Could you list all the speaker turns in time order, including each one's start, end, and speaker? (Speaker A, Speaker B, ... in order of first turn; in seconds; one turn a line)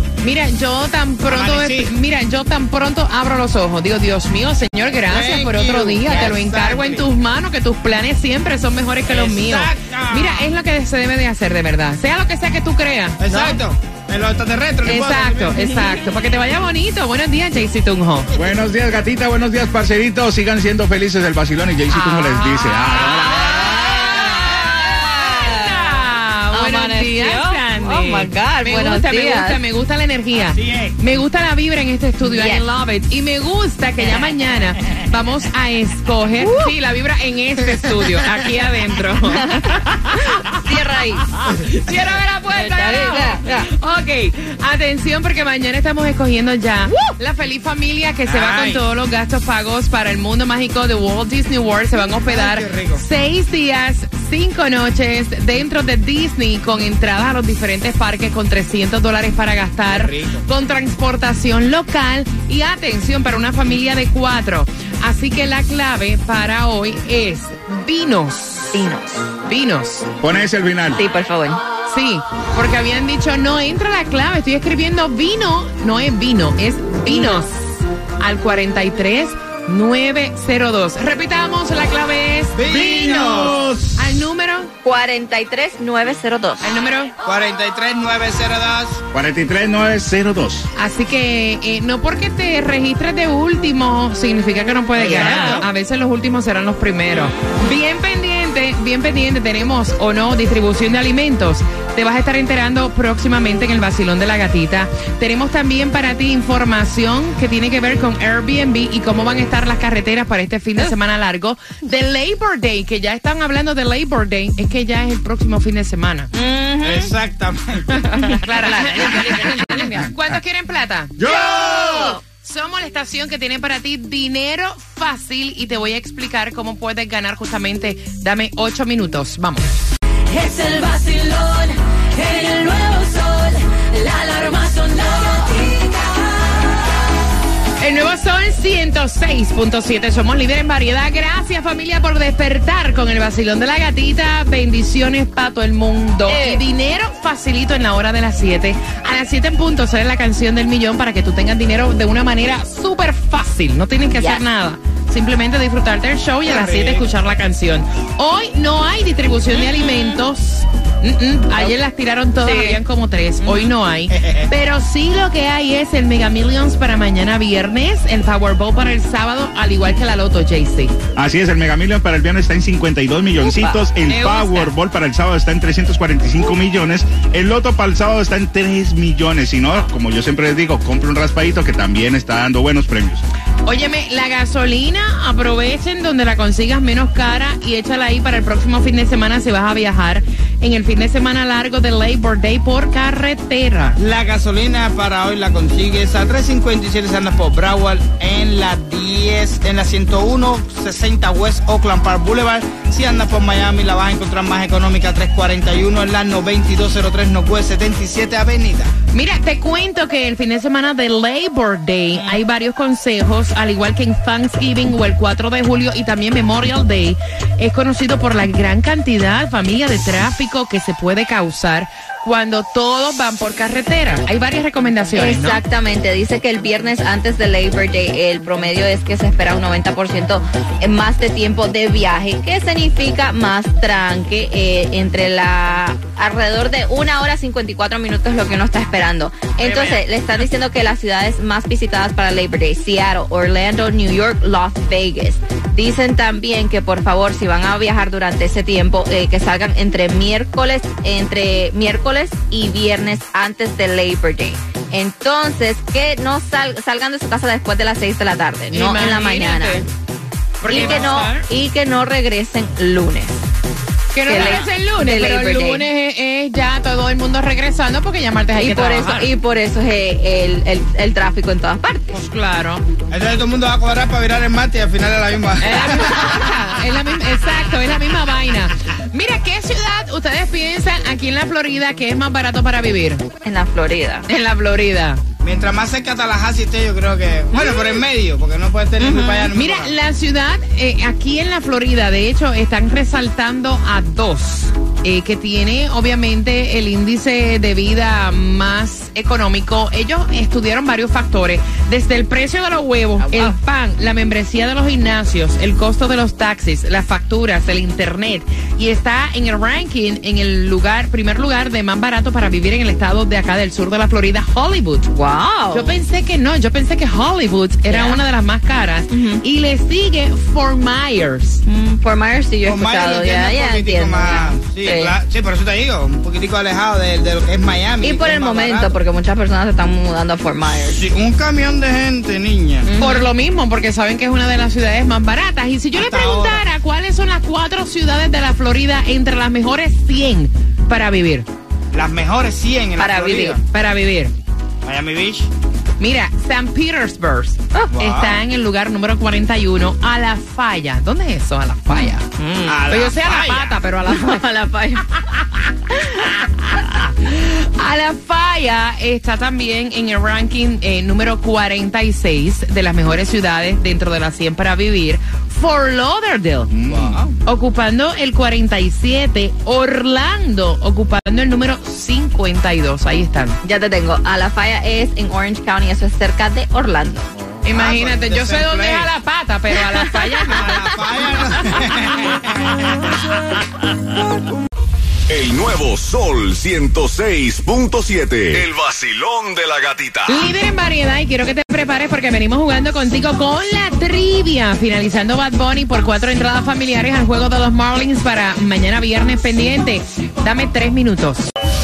Speaker A: 0.2-13.6
Speaker B: 1.3-1.9
Speaker B: 5.1-7.1
Speaker B: 9.1-10.5
Speaker B: 13.2-15.6
Speaker A: 14.8-18.3
Speaker C: 18.3-23.7
Speaker A: 21.9-39.8
Speaker D: 23.5-25.5
Speaker D: 26.5-29.6
Speaker B: 30.3-31.0
Speaker D: 32.2-32.6
Speaker D: 34.0-34.3
Speaker D: 36.4-36.7
Speaker D: 39.3-41.4
Speaker A: 41.6-68.8
Speaker D: 42.5-43.7
Speaker B: 48.2-48.8
Speaker B: 52.2-53.0
Speaker B: 59.9-60.5
Speaker D: 68.7-69.3
Speaker A: 69.4-70.1
Speaker C: 70.2-71.0
Speaker D: 70.9-71.6
Speaker A: 71.9-77.6
Speaker D: 77.0-77.4
Speaker A: 78.2-84.7
Speaker B: 82.5-83.7
Speaker C: 82.7-83.8
Speaker D: 84.8-86.6
Speaker A: 86.6-87.1
Speaker B: 87.2-89.0
Speaker C: 89.1-90.7
Speaker A: 90.8-116.3
Speaker B: 95.0-95.7
Speaker D: 95.0-95.6
Speaker D: 116.3-117.1
Speaker B: 116.8-118.0
Speaker A: 118.1-121.2
Speaker D: 118.1-120.0
Speaker D: 121.2-122.2
Speaker C: 121.4-122.1
Speaker A: 122.4-129.7
Speaker E: 130.3-131.6
Speaker E: 132.2-133.3
Speaker E: 133.9-136.0
Speaker A: 137.8-170.9
Speaker D: 146.3-146.6
Speaker B: 156.4-157.1
Speaker D: 159.5-160.2
Speaker D: 162.4-162.8
Speaker D: 163.4-163.7
Speaker B: 164.1-164.5
Speaker C: 171.2-183.2
Speaker A: 173.5-174.7
Speaker A: 183.6-194.0
Speaker B: 194.0-208.9
Speaker A: 209.1-225.6
Speaker B: 212.1-212.4
Speaker D: 225.1-259.8
Speaker B: 239.6-240.0
Speaker A: 258.7-259.9
Speaker A: 260.6-261.4
Speaker D: 260.6-263.4
Speaker B: 260.7-261.1
Speaker A: 264.1-269.3
Speaker D: 264.2-265.9
Speaker D: 268.6-272.1
Speaker A: 272.1-272.8
Speaker B: 273.1-276.5
Speaker A: 275.6-283.2
Speaker D: 283.4-284.2
Speaker A: 284.3-285.2
Speaker B: 285.4-289.9
Speaker D: 287.5-288.0
Speaker D: 289.0-289.5
Speaker A: 289.5-315.1
Speaker D: 303.2-303.6
Speaker D: 315.1-316.0
Speaker A: 315.7-321.6
Speaker D: 317.9-318.2
Speaker D: 319.1-319.4
Speaker D: 321.6-325.1
Speaker B: 322.6-328.9
Speaker D: 328.0-331.0
Speaker B: 330.7-332.9
Speaker D: 332.9-333.2
Speaker A: 333.0-341.5
Speaker B: 335.9-336.6
Speaker B: 341.9-343.6
Speaker D: 343.0-343.6
Speaker A: 343.6-344.3
Speaker B: 344.8-345.5
Speaker A: 346.0-352.2
Speaker B: 347.9-348.4
Speaker D: 351.9-352.8
Speaker B: 352.6-353.8
Speaker A: 352.9-366.7
Speaker D: 354.0-355.0
Speaker C: 366.7-367.2
Speaker B: 366.9-367.3
Speaker A: 367.4-373.6
Speaker D: 373.6-377.3
Speaker A: 377.6-380.7
Speaker B: 377.7-379.1
Speaker D: 379.9-380.9
Speaker B: 380.4-382.8
Speaker F: 385.3-390.5
Speaker A: 390.3-401.5